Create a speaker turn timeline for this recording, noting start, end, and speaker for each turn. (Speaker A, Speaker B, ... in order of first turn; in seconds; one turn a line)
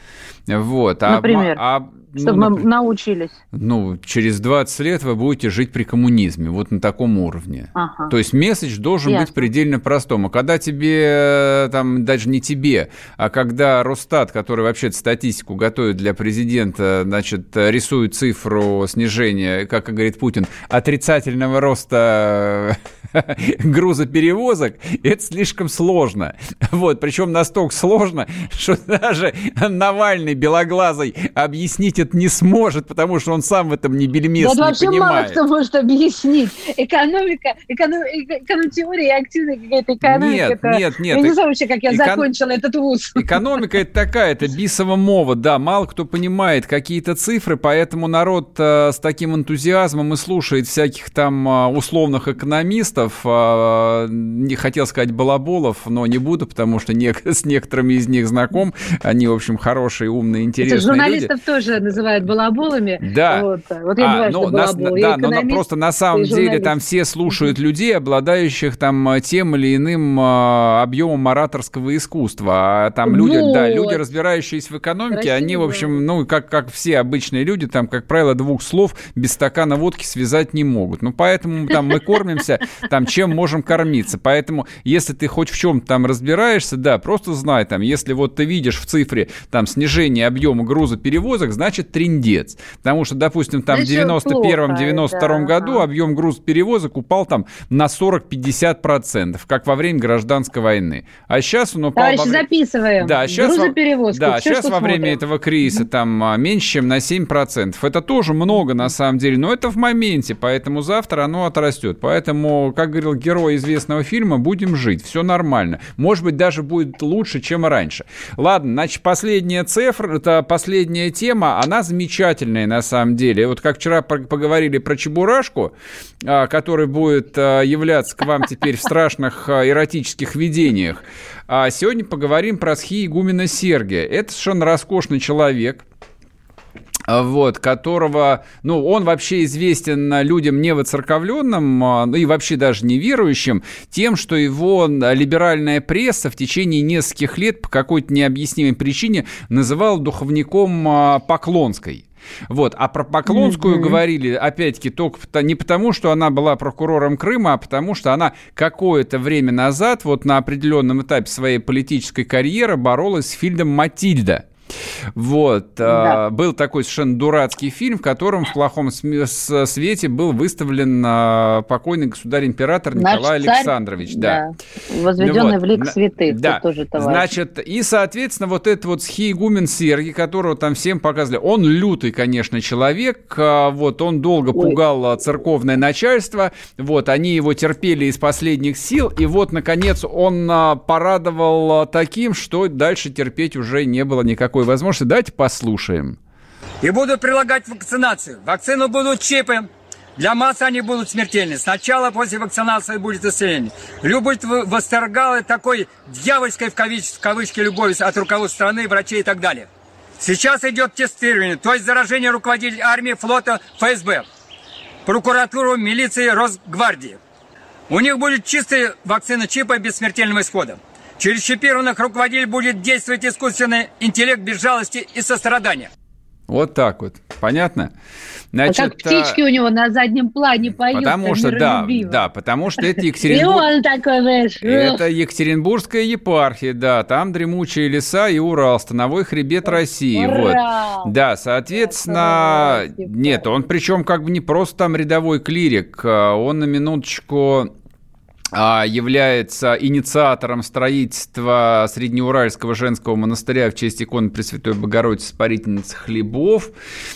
Speaker A: 0.5-2.7
Speaker B: 1.1-1.6
Speaker B: 2.1-3.4
Speaker A: 3.5-35.4
Speaker B: 7.7-8.1
Speaker B: 9.0-9.4
Speaker B: 34.4-43.3
Speaker A: 40.0-42.3
Speaker A: 43.1-61.3
Speaker B: 60.6-66.7
Speaker A: 63.0-63.5
Speaker A: 64.0-102.5
Speaker B: 73.0-74.0
Speaker B: 75.1-76.0
Speaker B: 93.7-95.8
Speaker B: 102.0-105.2
Speaker A: 103.0-135.8
Speaker A: 137.1-164.4
Speaker B: 153.3-154.0
Speaker A: 165.2-174.4
Speaker B: 165.8-166.2
Speaker B: 172.9-177.3
Speaker A: 175.2-196.2
Speaker C: 196.8-209.7
Speaker C: 210.2-214.2
Speaker C: 215.1-217.2
Speaker C: 217.9-225.9
Speaker A: 226.5-227.9
Speaker A: 228.5-229.4
Speaker B: 228.7-232.2
Speaker A: 230.8-233.7
Speaker B: 233.2-235.0
Speaker A: 234.6-247.7
Speaker B: 239.7-241.1
Speaker B: 241.7-243.6
Speaker A: 248.5-256.7